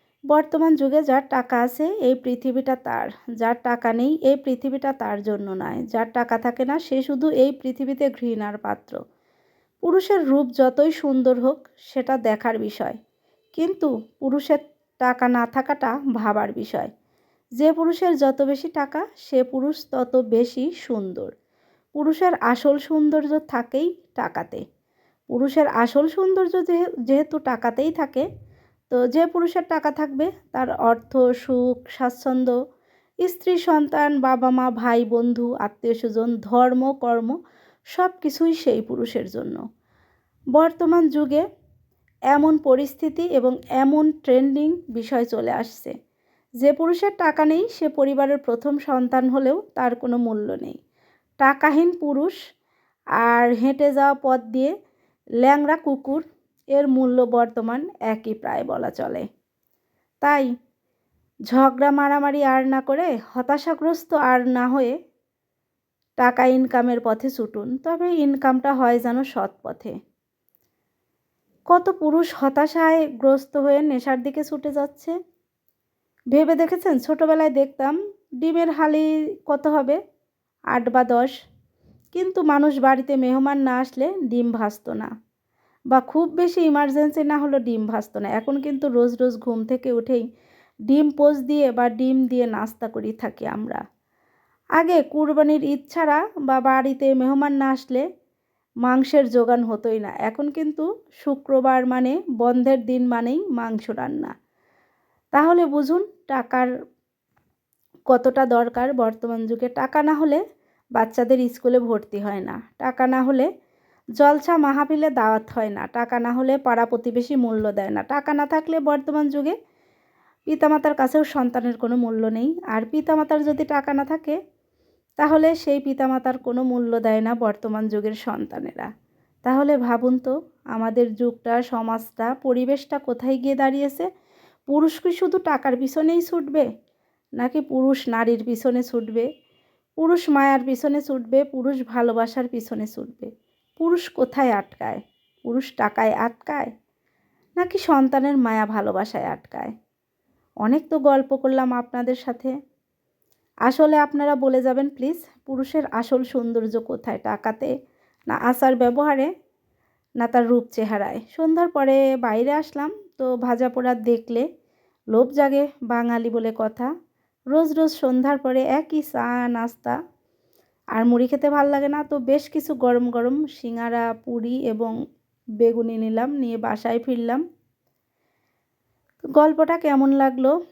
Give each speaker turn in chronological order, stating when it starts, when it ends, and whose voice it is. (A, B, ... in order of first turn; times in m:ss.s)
0:00.3-0:09.0 A
0:09.8-0:13.0 A
0:13.5-0:16.9 A
0:17.6-0:21.3 A
0:22.0-0:24.6 A
0:25.3-0:28.2 A
0:28.9-0:32.6 A
0:33.2-0:37.4 A
0:37.9-0:39.6 A
0:40.6-0:41.4 A
0:42.3-0:45.9 A
0:46.6-0:50.8 A
0:51.4-0:52.3 A
0:53.2-0:54.7 A
0:55.4-0:56.2 A
0:56.8-0:59.2 A
1:00.2-1:00.5 A
1:01.5-1:04.9 A
1:06.2-1:09.9 A
1:11.7-1:15.1 A
1:16.3-1:20.0 A
1:20.7-1:21.3 A
1:22.1-1:25.1 A
1:25.9-1:30.2 A
1:30.9-1:33.8 A
1:34.8-1:38.0 A
1:38.8-1:44.3 A
1:45.3-1:46.7 A
1:48.1-1:50.4 A
1:51.0-1:53.5 A
1:54.2-1:59.6 A
2:00.5-2:04.4 A
2:05.2-2:08.9 A
2:09.4-2:14.1 A
2:14.7-2:16.7 A
2:17.4-2:19.3 A
2:20.0-2:26.7 A
2:27.6-2:29.7 A
2:30.6-2:32.5 A
2:33.7-2:37.7 A
2:38.3-2:39.3 A
2:40.2-2:44.4 A
2:45.1-2:46.9 A
2:47.5-2:50.0 A
2:51.0-2:54.9 A
2:55.6-2:57.4 A
2:59.4-3:00.5 A